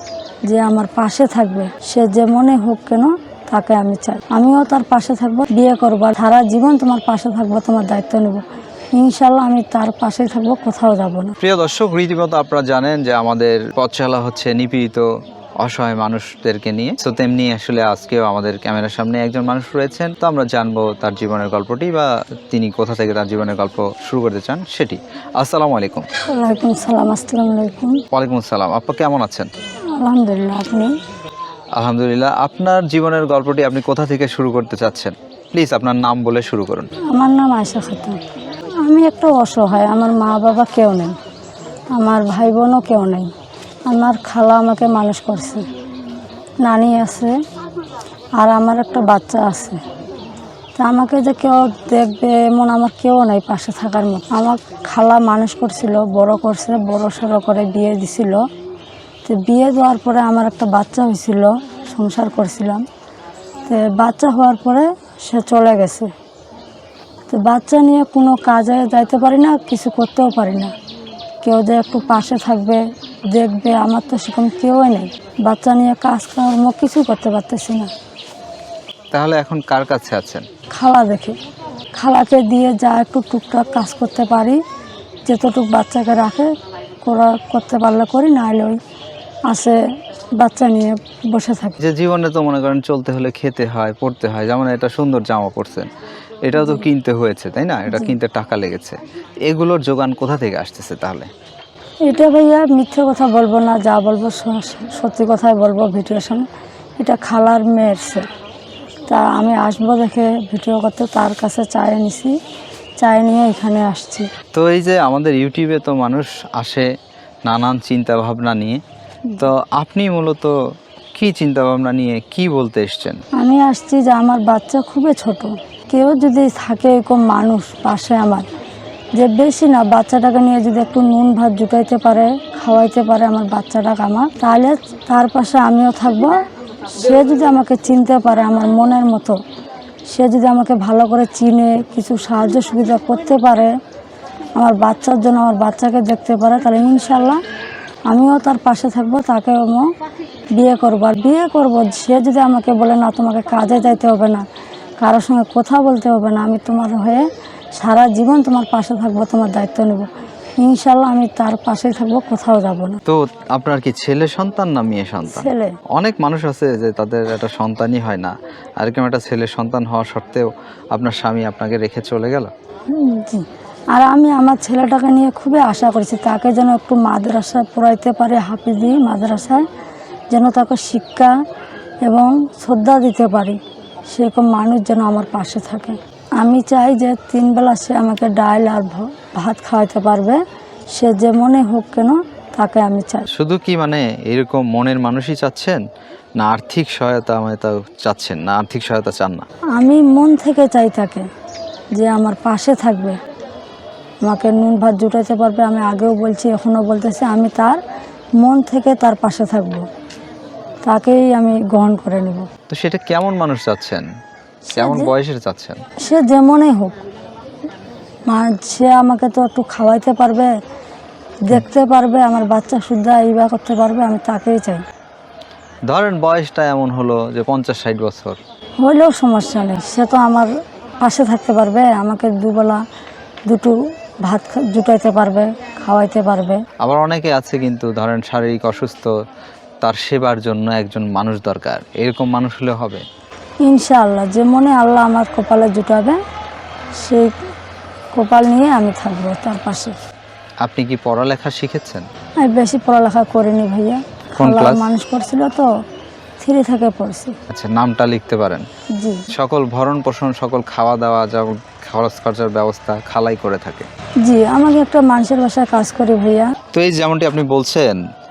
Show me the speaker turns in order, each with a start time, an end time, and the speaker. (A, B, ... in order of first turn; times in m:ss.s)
0:00.5-0:08.4 A
0:09.0-0:11.3 A
0:11.4-0:15.1 B
0:15.6-0:26.0 B
0:26.3-0:28.0 A
0:28.1-0:29.5 B
0:30.0-0:30.9 A
0:31.8-0:36.9 B
0:37.1-0:38.2 A
0:38.8-0:41.2 A
0:42.0-0:43.3 A
0:43.9-0:45.6 A
0:46.6-0:47.4 A
0:48.4-0:49.8 A
0:50.8-0:58.4 A
0:59.2-1:02.8 A
1:03.7-1:06.1 A
1:07.3-1:10.7 A
1:11.4-1:17.9 A
1:19.1-1:20.4 B
1:20.7-1:21.4 A
1:22.0-1:24.6 A
1:25.3-1:26.5 A
1:27.0-1:28.8 A
1:29.5-1:29.8 A
1:30.4-1:31.8 A
1:31.8-1:35.9 B
1:36.4-1:41.3 B
1:42.1-1:46.5 A
1:47.0-1:48.3 A
1:49.1-1:52.4 A
1:53.0-1:54.3 A
1:54.5-1:56.9 B
1:57.5-1:58.8 B
1:59.4-2:00.5 B
2:01.2-2:03.2 B
2:03.4-2:08.5 A
2:09.2-2:16.4 A
2:16.9-2:19.4 A
2:20.1-2:23.7 A
2:24.5-2:27.4 A
2:28.1-2:29.9 A
2:30.6-2:34.5 A
2:35.0-2:40.1 A
2:40.6-2:43.0 A
2:43.1-2:52.5 B
2:45.3-2:45.8 A
2:52.9-2:59.7 A
3:00.3-3:01.3 A
3:02.0-3:10.4 A
3:10.9-3:13.3 A
3:13.3-3:15.8 B
3:16.4-3:19.4 B
3:19.7-3:21.3 A
3:22.0-3:23.2 A
3:24.2-3:27.8 A
3:28.4-3:29.8 A
3:30.8-3:32.5 A
3:32.7-3:34.1 B
3:34.7-3:35.1 A
3:34.8-3:35.8 B
3:36.0-3:37.0 A
3:38.3-3:40.5 A
3:41.4-3:44.8 A
3:45.9-3:48.4 B
3:48.8-3:50.5 A
3:51.0-3:52.8 A
3:53.5-3:56.6 A
3:56.8-3:59.1 B
3:59.8-4:03.0 B
4:03.6-4:06.2 A
4:07.0-4:07.3 A
4:08.2-4:10.0 A
4:10.6-4:12.0 B
4:12.4-4:15.7 A
4:14.4-4:14.9 B
4:16.4-4:17.4 A
4:17.5-4:18.7 B
4:19.0-4:19.2 A
4:19.3-4:23.9 B
4:24.2-4:26.6 A
4:26.7-4:28.0 B